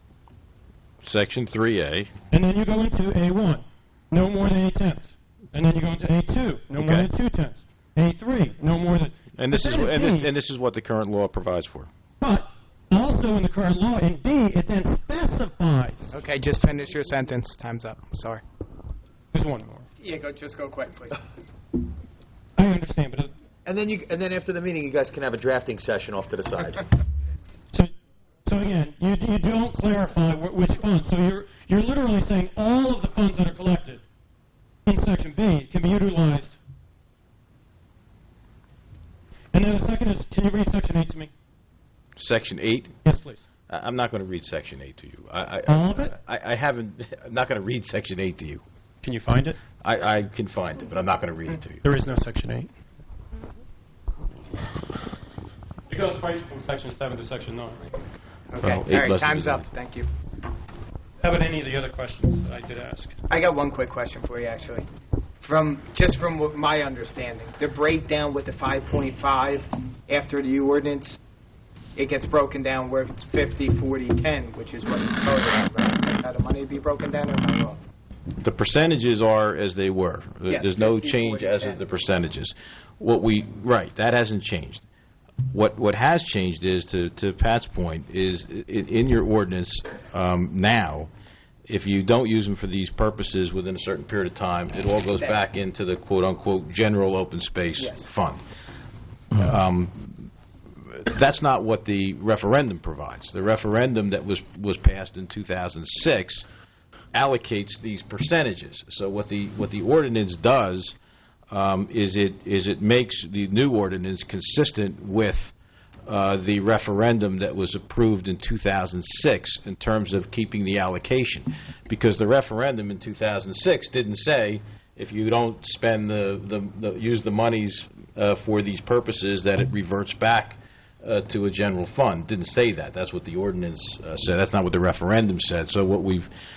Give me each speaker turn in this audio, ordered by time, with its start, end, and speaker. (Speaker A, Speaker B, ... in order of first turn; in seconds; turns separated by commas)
Speaker A: 1.0-2.1, Speaker B: 2.3-10.3, Speaker A: 6.8-7.1, Speaker A: 9.4-11.9, Speaker B: 12.2-16.1, Speaker C: 16.1-18.4, Speaker B: 19.3-19.9, Speaker C: 20.0-21.3, Speaker B: 22.6-23.3, Speaker D: 24.1-26.8, Speaker B: 28.5-34.0, Speaker B: 34.9-36.6, Speaker B: 39.5-41.3, Speaker A: 42.2-42.9, Speaker B: 43.0-43.4, Speaker A: 43.7-48.6, Speaker B: 45.7-46.1, Speaker B: 49.0-49.6, Speaker A: 49.8-51.8, Speaker B: 51.8-52.7, Speaker B: 55.9-57.8, Speaker C: 58.5-60.1, Speaker A: 58.6-59.6, Speaker B: 61.2-63.1, Speaker C: 63.3-64.9, Speaker C: 65.4-71.2, Speaker C: 72.0-77.8, Speaker A: 78.4-84.8, Speaker C: 80.5-81.8, Speaker A: 85.5-91.1, Speaker A: 91.7-98.4, Speaker C: 97.8-98.1, Speaker A: 99.3-100.3, Speaker A: 100.8-106.5, Speaker A: 107.1-111.0, Speaker A: 111.5-115.5, Speaker A: 116.1-136.3